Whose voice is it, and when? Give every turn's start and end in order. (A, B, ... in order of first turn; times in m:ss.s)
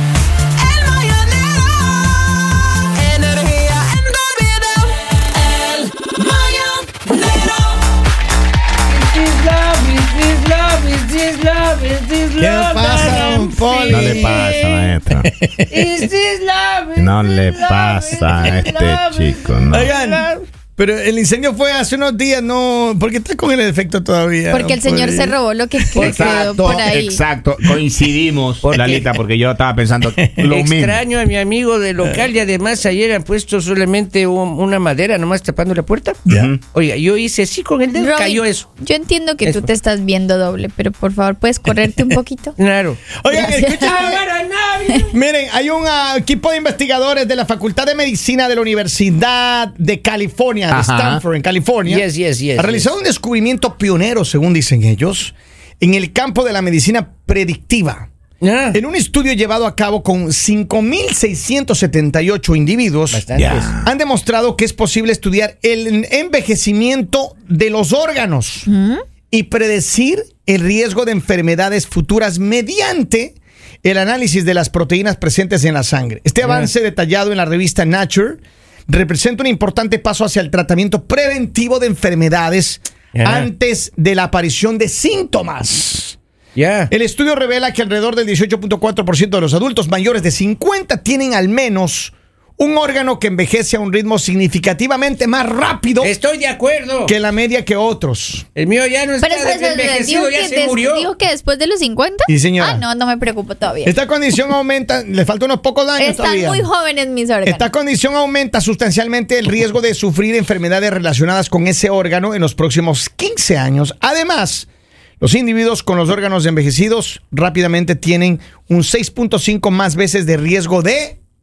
0:03.3-0:04.2 A
0:05.4-0:07.5 A
0:08.9-0:14.9 A
0:12.4-0:14.5 B
0:13.1-0:13.5 C
0:13.9-0:15.3 D
0:14.2-0:14.6 C
0:15.7-0:20.4 A
0:17.0-0:19.9 D
0:19.7-0:26.8 B
0:24.5-0:27.2 C
0:26.0-0:31.0 D
0:26.0-0:26.3 A
0:28.6-0:29.2 A
0:30.4-0:36.2 A
0:36.3-0:36.5 B
0:36.3-0:36.6 D
0:36.7-0:38.7 A
0:37.9-0:42.6 C
0:42.6-0:45.1 A
0:43.2-0:44.2 B
0:43.3-0:44.0 C
0:45.1-0:58.1 B
0:50.7-0:51.2 D
0:51.9-0:52.9 A
0:58.4-0:58.8 A
0:58.7-1:03.2 B
1:03.1-1:03.7 A
1:03.4-1:03.9 D
1:03.8-1:08.7 B
1:08.7-1:09.0 C
1:09.3-1:26.2 B
1:16.4-1:16.7 A
1:23.1-1:23.5 A
1:26.6-1:26.9 A
1:26.9-1:36.1 B
1:36.0-1:37.2 A
1:37.0-1:38.4 B
1:38.6-1:41.1 A
1:39.2-1:43.9 C
1:42.3-1:42.8 B
1:43.8-1:46.7 B
1:46.0-1:47.7 C
1:47.4-1:54.7 B
1:55.2-2:01.2 B